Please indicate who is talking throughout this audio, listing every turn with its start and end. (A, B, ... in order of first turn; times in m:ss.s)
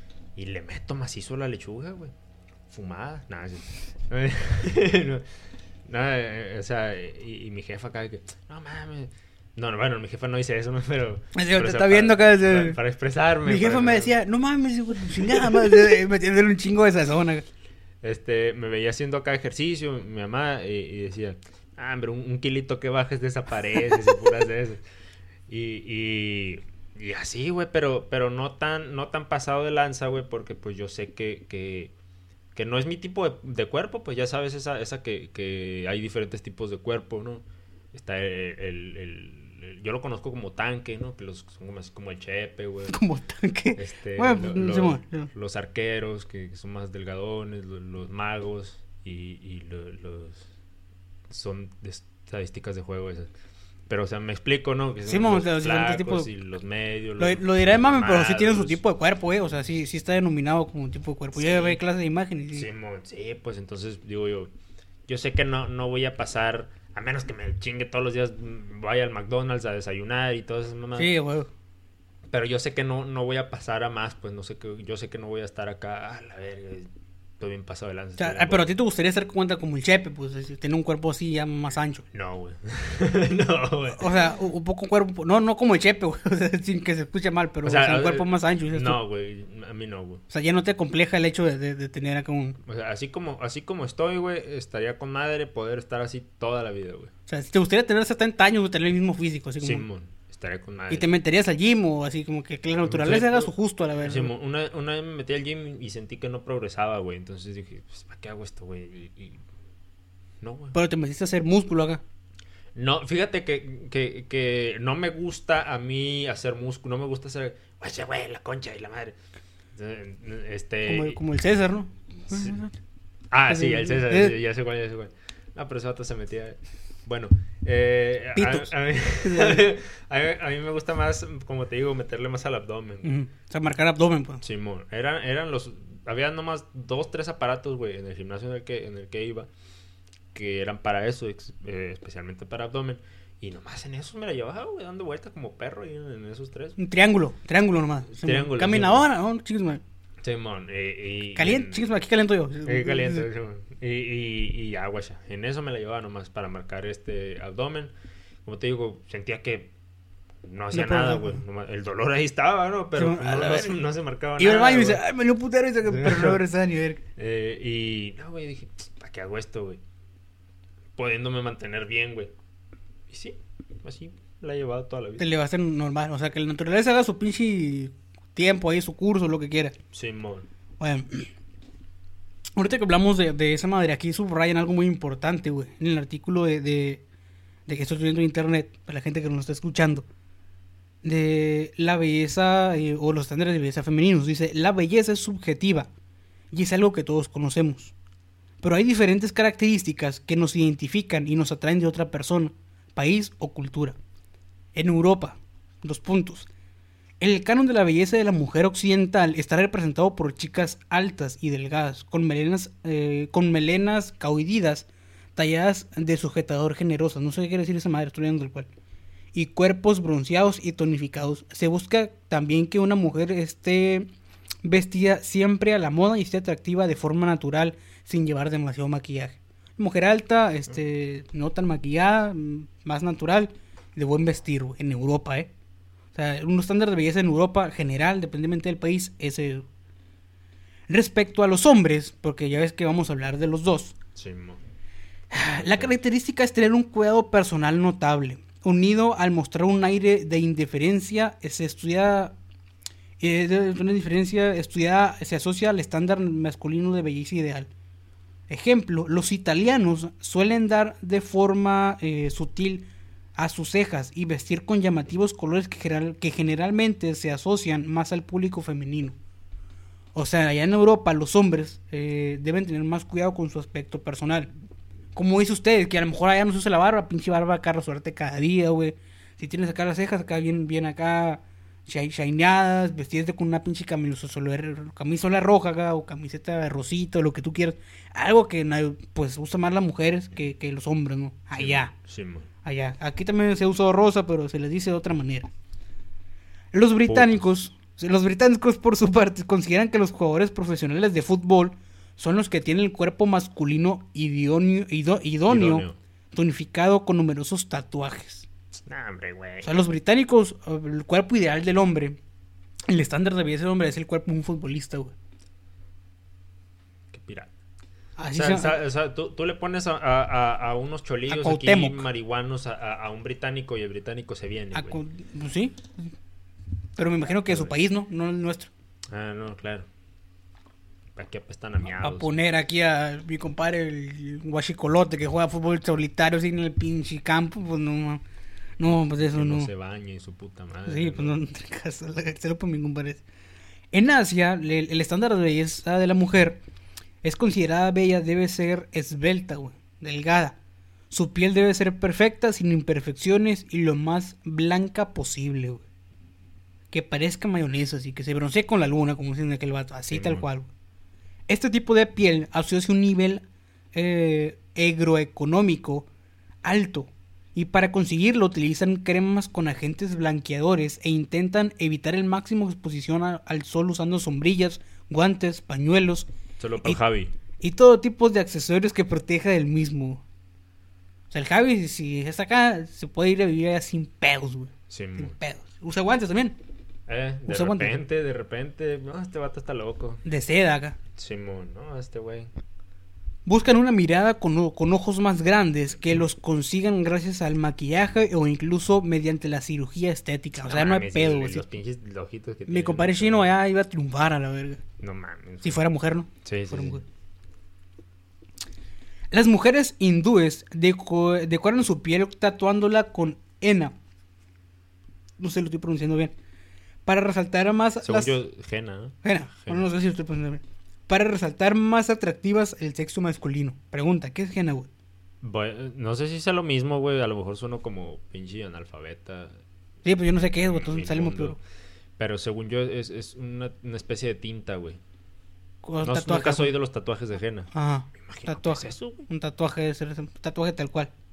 0:00.4-0:02.1 A
0:02.7-0:05.3 A
0:05.8-0:14.1 A
0:11.3-0:12.8 B
0:13.4-0:17.4 B
0:15.3-0:15.8 A
0:18.0-0:24.8 A
0:25.5-0:31.9 A
0:32.5-0:43.0 A
0:42.9-0:45.3 B
0:43.8-0:50.5 A
0:51.3-0:53.3 A
0:53.9-0:58.8 A
0:55.1-0:56.3 B
0:57.2-1:02.7 B
1:01.4-1:01.8 A
1:02.5-1:04.5 A
1:05.1-1:11.1 A
1:11.0-1:11.5 B
1:12.3-1:18.7 A
1:18.2-1:22.0 B
1:22.1-1:24.1 A
1:24.0-1:29.0 B
1:27.6-1:30.2 A
1:30.3-1:32.6 B
1:32.6-1:37.1 A
1:37.3-1:39.8 B
1:39.6-1:41.1 A
1:40.9-1:44.3 B
1:42.8-1:43.5 A
1:44.0-1:49.4 A
1:50.4-1:50.8 A
1:50.7-1:52.0 B
1:52.7-1:59.2 A
1:59.7-2:01.2 A
2:00.8-2:02.8 B
2:02.3-2:02.6 A
2:03.3-2:13.1 A
2:03.5-2:04.3 B
2:08.3-2:09.7 B
2:13.0-2:14.4 B
2:14.4-2:19.5 A
2:20.3-2:26.8 A
2:26.8-2:29.8 B
2:28.1-2:29.0 A
2:30.2-2:31.8 A
2:31.3-2:33.3 B
2:32.6-2:37.9 A
2:38.4-2:39.7 A
2:40.4-2:45.0 A
2:40.7-2:41.4 B
2:43.0-2:43.8 B
2:44.4-2:47.0 B
2:45.9-2:46.4 A
2:47.2-2:49.8 A
2:51.0-2:52.3 A
2:53.1-2:55.3 A
2:55.2-2:59.8 B
2:59.9-3:00.5 A
3:00.8-3:01.3 B
3:02.6-3:07.0 B
3:07.7-3:10.0 B
3:11.0-3:15.9 B
3:16.5-3:17.9 B
3:18.6-3:24.0 B
3:24.7-3:26.5 B
3:27.2-3:38.7 B
3:39.3-3:44.1 B
3:44.6-3:55.5 B
3:56.1-3:59.6 B
4:00.9-4:04.0 B
4:04.1-4:04.6 A
4:05.3-4:12.3 B
4:05.6-4:05.9 A
4:13.2-4:17.7 B
4:18.5-4:29.1 B
4:30.1-4:34.5 B
4:35.1-4:51.9 B
4:51.5-4:52.5 A
4:52.6-4:55.5 B
4:56.7-5:08.5 B
4:57.1-4:57.4 A
5:05.5-5:06.0 A
5:08.9-5:09.7 A
5:09.6-5:12.2 B
5:12.9-5:15.1 B
5:17.1-5:17.5 A
5:18.2-5:18.7 B
5:18.3-5:25.0 A
5:21.3-5:22.0 B
5:24.7-5:25.9 B
5:27.0-5:28.7 B
5:27.5-5:27.7 A
5:29.1-5:29.9 A
5:31.2-5:32.4 A
5:32.0-5:38.2 B
5:38.8-5:39.7 B
5:39.2-5:41.4 A
5:40.9-5:43.2 B
5:43.9-5:46.6 B
5:47.2-5:50.6 B
5:51.1-5:55.8 B
5:56.9-6:00.7 B
6:00.1-6:00.4 A
6:01.5-6:06.1 B
6:06.6-6:16.3 B
6:16.6-6:17.3 A
6:17.6-6:20.2 B
6:21.3-6:26.6 B
6:24.9-6:25.3 A
6:27.1-6:30.2 A
6:27.5-6:28.0 B
6:30.2-6:31.0 B
6:31.2-6:32.5 A
6:33.4-6:41.6 B
6:40.6-6:43.5 A
6:42.7-6:44.8 B
6:45.0-6:45.8 A
6:45.6-6:47.0 B
6:46.4-6:47.0 A
6:49.3-6:53.9 B
6:55.4-6:56.3 B
6:57.0-6:58.4 B
6:58.0-6:59.9 A
6:59.2-7:04.9 B
7:05.4-7:09.6 A
7:10.0-7:11.6 B
7:10.6-7:11.6 A
7:12.2-7:15.0 A
7:15.8-7:16.7 B
7:16.0-7:17.7 A
7:17.7-7:21.1 B
7:18.2-7:19.2 A